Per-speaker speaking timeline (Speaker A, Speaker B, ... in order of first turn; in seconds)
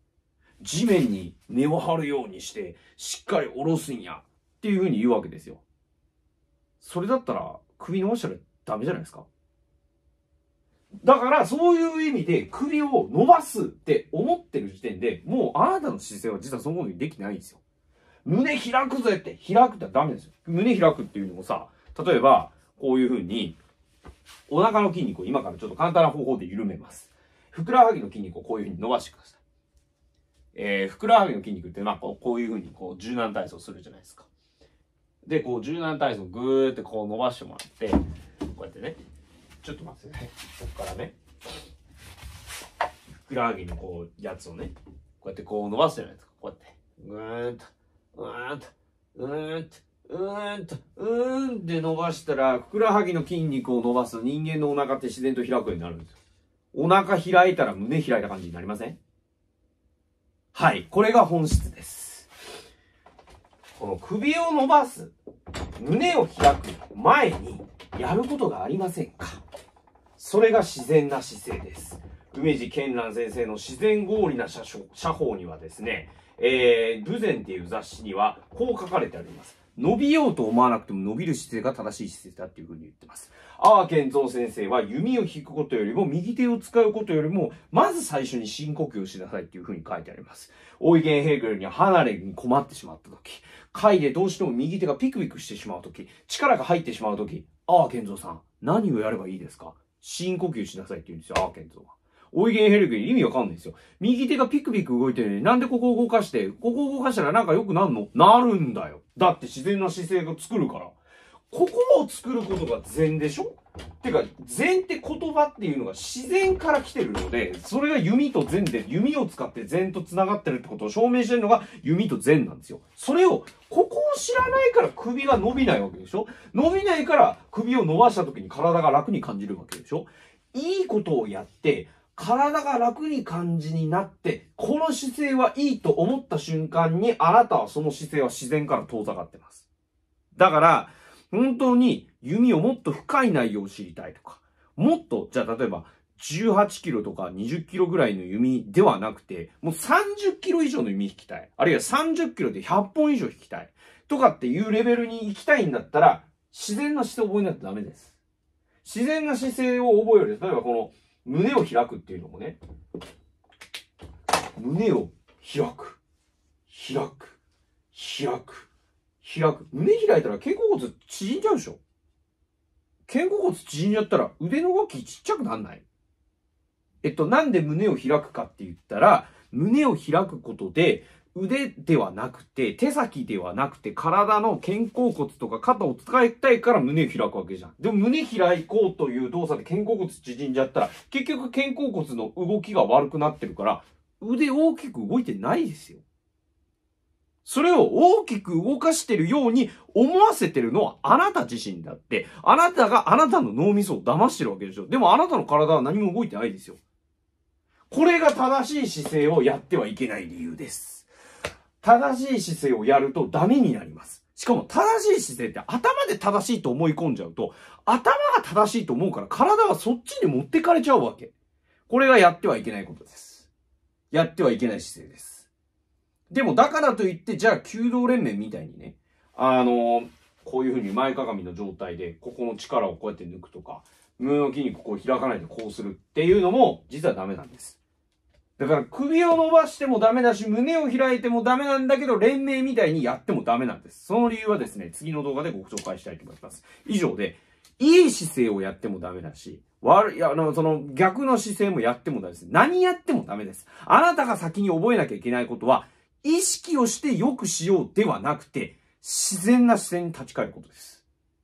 Speaker A: 0.6-5.6, 6.8-9.2, 11.0-17.6, 18.2-23.6, 24.5-29.4, 30.6-34.3, 35.2-39.0, 39.6-41.2, 43.2-56.1, 56.7-59.0, 60.5-62.3, 63.8-65.1, 65.8-69.4, 70.2-111.0, 111.5-139.7, 140.3-158.1, 158.8-162.6, 164.6-166.0, 166.7-167.4, 167.9-168.7, 169.2-171.8, 173.1-175.8, 177.0-196.0, 197.4-206.8, 207.9-211.1, 211.8-221.3, 221.9-223.5, 224.1-225.5, 226.3-237.8, 238.6-261.0